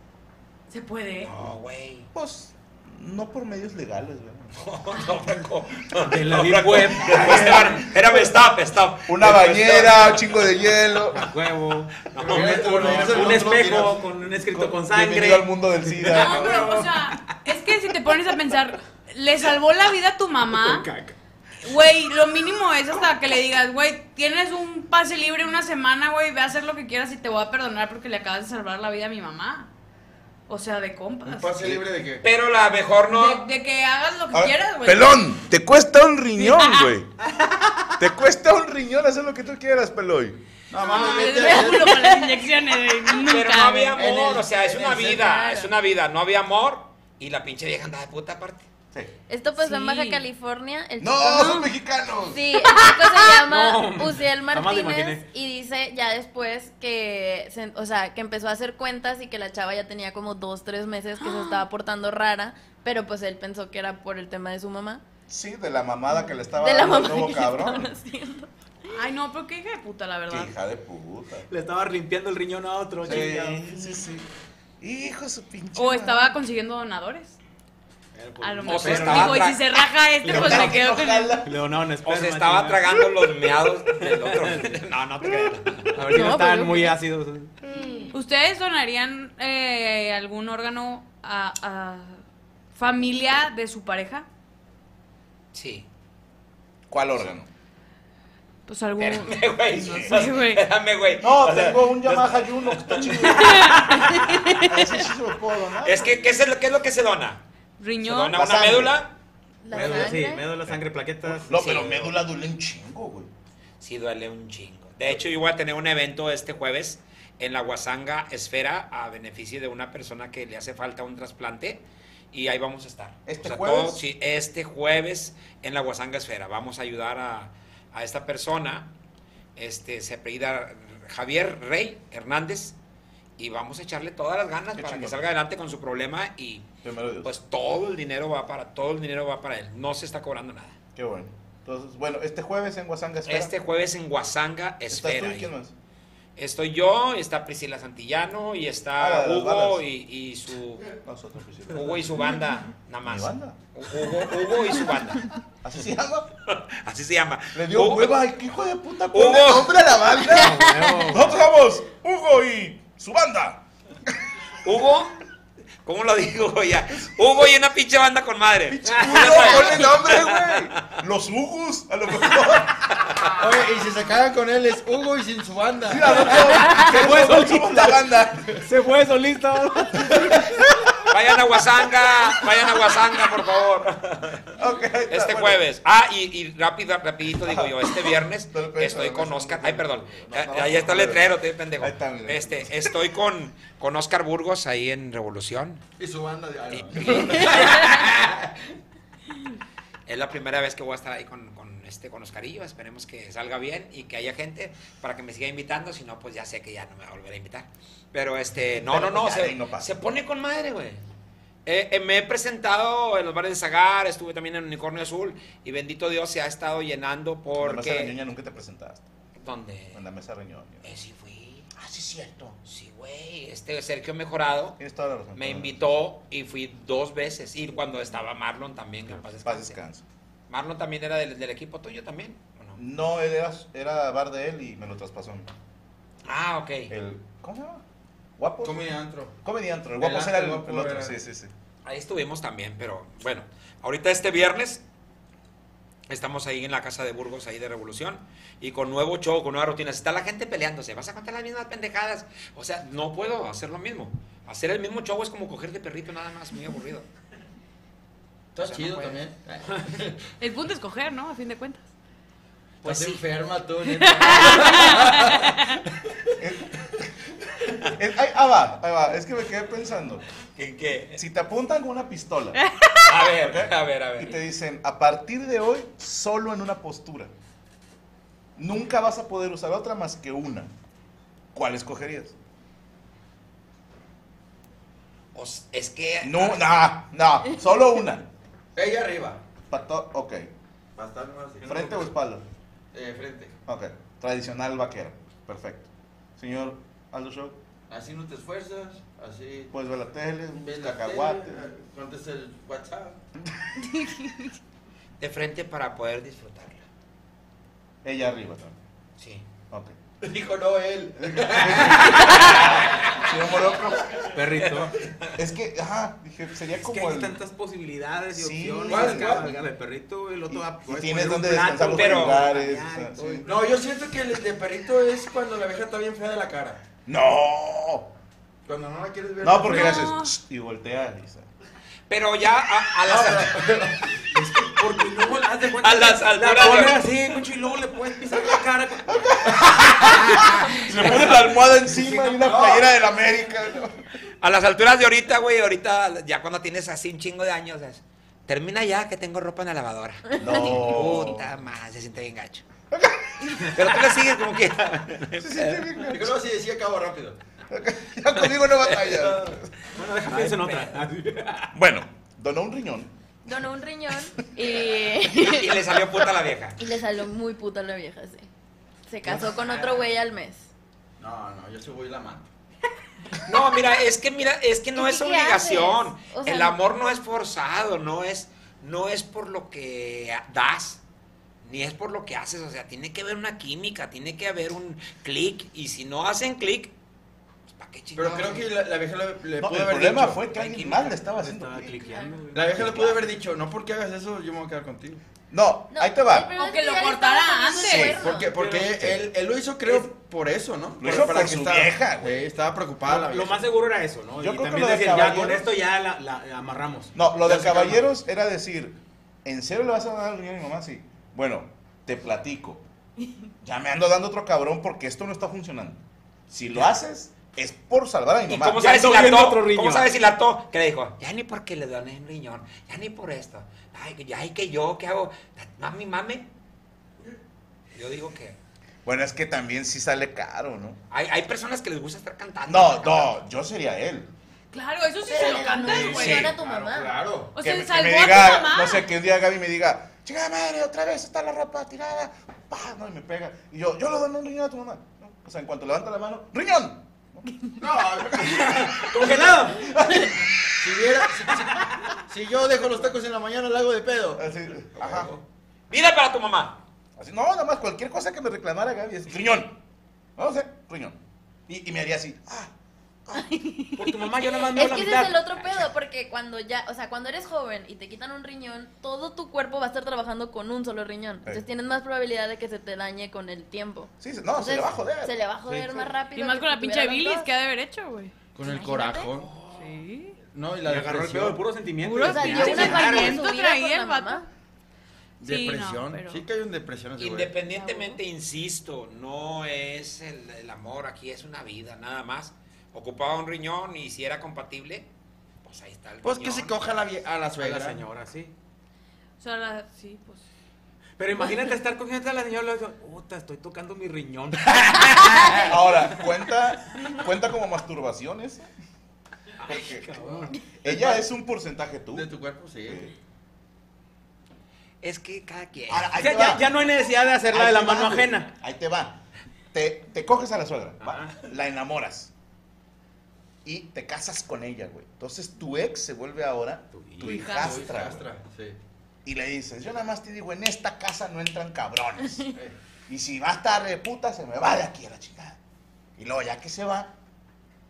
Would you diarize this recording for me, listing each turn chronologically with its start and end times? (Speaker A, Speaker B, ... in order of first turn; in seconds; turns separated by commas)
Speaker A: 0.7-1.3, Speaker B: 1.2-2.1, Speaker C: 2.1-4.6, Speaker B: 4.6-10.4, Speaker D: 6.1-7.9, Speaker C: 7.1-7.6, Speaker C: 9.1-11.3, Speaker D: 11.1-17.4, Speaker B: 12.1-13.3, Speaker E: 12.2-14.0, Speaker C: 12.6-13.9, Speaker C: 14.5-16.8, Speaker A: 16.1-20.9, Speaker D: 20.4-21.2, Speaker A: 21.6-29.7, Speaker A: 30.5-31.6, Speaker E: 31.2-32.3, Speaker B: 32.2-33.5, Speaker A: 33.1-35.3, Speaker C: 34.3-37.1, Speaker A: 36.4-37.0, Speaker C: 38.0-40.4, Speaker E: 40.7-42.1, Speaker A: 40.7-44.0, Speaker F: 41.2-42.5, Speaker B: 43.2-48.7, Speaker E: 44.0-45.2, Speaker F: 44.9-45.7, Speaker F: 49.3-51.7, Speaker A: 49.6-50.2, Speaker C: 51.0-52.4, Speaker A: 51.3-51.7, Speaker F: 52.3-65.0, Speaker A: 52.6-53.4, Speaker D: 53.4-55.3, Speaker A: 61.2-61.7, Speaker C: 65.3-67.9, Speaker F: 66.4-68.5, Speaker A: 68.9-70.5, Speaker C: 70.3-71.5, Speaker D: 71.5-73.7, Speaker C: 73.0-74.2, Speaker C: 74.8-76.3, Speaker A: 75.8-77.4, Speaker D: 78.2-79.5, Speaker A: 78.4-81.4, Speaker B: 78.7-79.8, Speaker D: 80.2-80.7, Speaker C: 80.3-81.6, Speaker D: 81.4-83.0, Speaker B: 82.0-85.9, Speaker D: 84.0-84.8, Speaker C: 85.2-85.5, Speaker D: 86.0-87.5, Speaker F: 86.0-87.0, Speaker F: 87.7-88.1, Speaker A: 88.1-92.2, Speaker A: 92.7-94.3, Speaker B: 95.5-95.9, Speaker C: 96.9-97.5, Speaker A: 98.7-100.7, Speaker B: 99.0-103.7, Speaker C: 99.8-100.2, Speaker C: 101.2-103.6, Speaker A: 103.2-104.9, Speaker C: 104.6-106.4, Speaker B: 105.8-107.4, Speaker A: 107.8-108.5, Speaker B: 108.0-109.1, Speaker C: 108.3-109.0, Speaker F: 109.6-110.5, Speaker D: 109.7-111.8, Speaker C: 109.8-110.0, Speaker C: 110.7-113.3, Speaker B: 111.5-112.1, Speaker B: 113.8-128.9, Speaker C: 123.3-124.0, Speaker B: 129.6-132.8, Speaker B: 133.4-136.7, Speaker C: 134.8-135.3, Speaker C: 136.8-137.3, Speaker B: 137.2-140.8, Speaker C: 140.9-143.5, Speaker B: 143.3-145.5, Speaker C: 144.9-145.7, Speaker B: 146.4-150.9, Speaker C: 149.0-149.8, Speaker C: 151.0-152.2, Speaker B: 151.7-155.3, Speaker C: 153.0-153.6, Speaker C: 155.6-156.3, Speaker B: 156.5-158.3, Speaker C: 157.5-163.6, Speaker B: 159.1-159.8, Speaker D: 160.3-161.4, Speaker B: 164.6-165.2, Speaker B: 165.8-171.0, Speaker C: 168.7-172.8, Speaker B: 173.0-173.3, Speaker E: 173.4-176.4, Speaker C: 175.9-178.5, Speaker D: 176.4-178.0, Speaker D: 178.6-180.4, Speaker C: 180.1-180.9, Speaker B: 181.1-184.5, Speaker C: 184.6-185.6, Speaker B: 185.1-195.8, Speaker C: 187.4-193.0, Speaker E: 196.0-198.1, Speaker B: 196.7-198.1, Speaker B: 200.1-211.0, Speaker C: 208.8-209.9, Speaker B: 211.7-218.2, Speaker C: 217.6-219.1, Speaker B: 219.4-220.0, Speaker C: 219.9-220.8, Speaker B: 220.8-221.7, Speaker C: 221.8-222.6, Speaker B: 222.7-224.8, Speaker C: 224.8-225.8, Speaker B: 225.3-229.8, Speaker C: 229.4-230.0, Speaker B: 230.5-232.8, Speaker C: 232.8-235.5, Speaker B: 236.2-236.9, Speaker C: 236.9-237.8, Speaker C: 238.4-238.8, Speaker E: 238.6-239.3, Speaker C: 239.4-241.5, Speaker E: 240.0-241.1, Speaker B: 241.8-244.8, Speaker B: 246.1-257.1, Speaker E: 258.6-260.2, Speaker B: 258.6-259.2, Speaker A: 260.4-261.9, Speaker B: 262.8-263.2, Speaker E: 262.8-265.5, Speaker A: 263.8-265.6, Speaker C: 266.4-266.7, Speaker C: 268.0-270.2, Speaker B: 270.6-271.2, Speaker C: 271.2-272.6, Speaker B: 273.0-274.4, Speaker C: 273.3-277.3, Speaker C: 278.6-280.7, Speaker C: 281.5-282.4, Speaker B: 285.3-286.6, Speaker C: 286.2-288.3, Speaker E: 288.8-289.4, Speaker C: 289.7-290.5, Speaker E: 291.0-292.1, Speaker C: 291.6-292.4, Speaker E: 292.9-293.6, Speaker C: 293.7-297.6, Speaker E: 297.9-299.7, Speaker C: 299.7-301.7, Speaker E: 300.5-303.2, Speaker B: 305.2-306.8, Speaker C: 308.0-308.8, Speaker B: 309.2-309.4, Speaker C: 309.7-310.0, Speaker E: 310.2-312.2, Speaker C: 311.4-314.4, Speaker B: 312.1-313.2, Speaker D: 314.3-314.9, Speaker B: 314.6-315.3, Speaker C: 315.4-317.4, Speaker D: 316.9-323.5, Speaker C: 318.3-319.5, Speaker E: 318.9-319.6, Speaker C: 320.5-323.5, Speaker B: 321.9-322.6, Speaker E: 323.4-326.8, Speaker C: 327.1-328.1, Speaker E: 328.7-330.1, Speaker C: 329.4-331.5, Speaker A: 329.6-330.3, Speaker B: 332.1-333.7, Speaker E: 333.1-334.2, Speaker D: 334.3-342.4, Speaker B: 335.4-337.1, Speaker C: 336.6-337.0, Speaker C: 338.3-344.0, Speaker B: 340.0-341.5, Speaker E: 342.4-342.8, Speaker B: 344.4-352.6, Speaker F: 350.3-351.0, Speaker C: 350.4-351.5, Speaker C: 352.9-354.0, Speaker B: 353.7-356.0, Speaker C: 355.4-356.3, Speaker E: 356.0-357.4, Speaker C: 357.7-359.6, Speaker D: 359.9-361.7, Speaker B: 360.3-361.0, Speaker C: 361.7-363.1, Speaker F: 363.4-366.1, Speaker B: 365.2-366.8, Speaker F: 366.8-368.5, Speaker F: 369.1-370.7, Speaker D: 369.4-369.8, Speaker E: 371.2-372.5, Speaker B: 373.4-381.0, Speaker F: 374.9-376.8, Speaker B: 381.6-386.9, Speaker B: 387.7-388.7, Speaker E: 388.1-390.5, Speaker C: 389.6-392.1, Speaker D: 390.6-393.2, Speaker E: 392.5-395.2, Speaker C: 395.5-396.5, Speaker F: 395.9-398.5, Speaker A: 396.5-398.2, Speaker E: 398.0-403.7, Speaker D: 398.6-399.0, Speaker C: 401.0-402.4, Speaker D: 403.1-408.1, Speaker C: 404.4-405.7, Speaker C: 407.1-412.8, Speaker C: 413.6-419.0, Speaker B: 418.5-426.5, Speaker D: 418.8-420.1, Speaker B: 427.9-428.6, Speaker C: 429.1-431.0, Speaker B: 431.1-433.4, Speaker C: 432.7-434.3, Speaker A: 434.7-436.5, Speaker F: 435.3-437.2, Speaker D: 436.1-436.3, Speaker C: 436.1-436.5, Speaker E: 436.6-437.5, Speaker A: 437.6-439.1, Speaker C: 437.6-447.6, Speaker E: 447.8-449.5, Speaker C: 448.4-450.3, Speaker D: 448.6-450.3, Speaker E: 450.8-451.7, Speaker E: 452.3-454.4, Speaker C: 454.4-455.3, Speaker B: 455.9-456.8, Speaker C: 457.2-459.8, Speaker C: 460.4-461.2, Speaker C: 461.7-462.7, Speaker F: 463.3-477.5, Speaker D: 464.0-465.7, Speaker C: 474.2-475.3, Speaker D: 475.7-476.1, Speaker A: 476.2-478.3, Speaker E: 478.6-479.5, Speaker F: 478.6-479.3, Speaker B: 479.4-479.9, Speaker A: 479.8-480.4, Speaker E: 480.5-481.7, Speaker D: 480.8-483.4, Speaker A: 482.0-484.5, Speaker F: 482.2-484.4, Speaker A: 485.4-486.4, Speaker E: 485.4-487.6, Speaker B: 487.2-495.1, Speaker A: 487.6-488.2, Speaker B: 495.6-496.9, Speaker E: 496.2-498.0, Speaker D: 497.6-498.5, Speaker A: 499.4-500.4, Speaker D: 501.2-505.7, Speaker C: 505.6-508.7, Speaker C: 509.7-510.1, Speaker D: 510.1-511.2, Speaker C: 510.8-512.3, Speaker E: 512.1-513.1, Speaker C: 512.9-513.1, Speaker B: 515.0-516.1, Speaker C: 515.9-516.7, Speaker D: 516.2-518.5, Speaker C: 517.5-519.2, Speaker C: 519.7-522.3, Speaker C: 523.6-528.3, Speaker D: 526.9-527.4, Speaker A: 527.2-527.8, Speaker E: 527.5-528.8, Speaker C: 529.2-532.5, Speaker C: 533.1-535.6, Speaker C: 536.2-537.1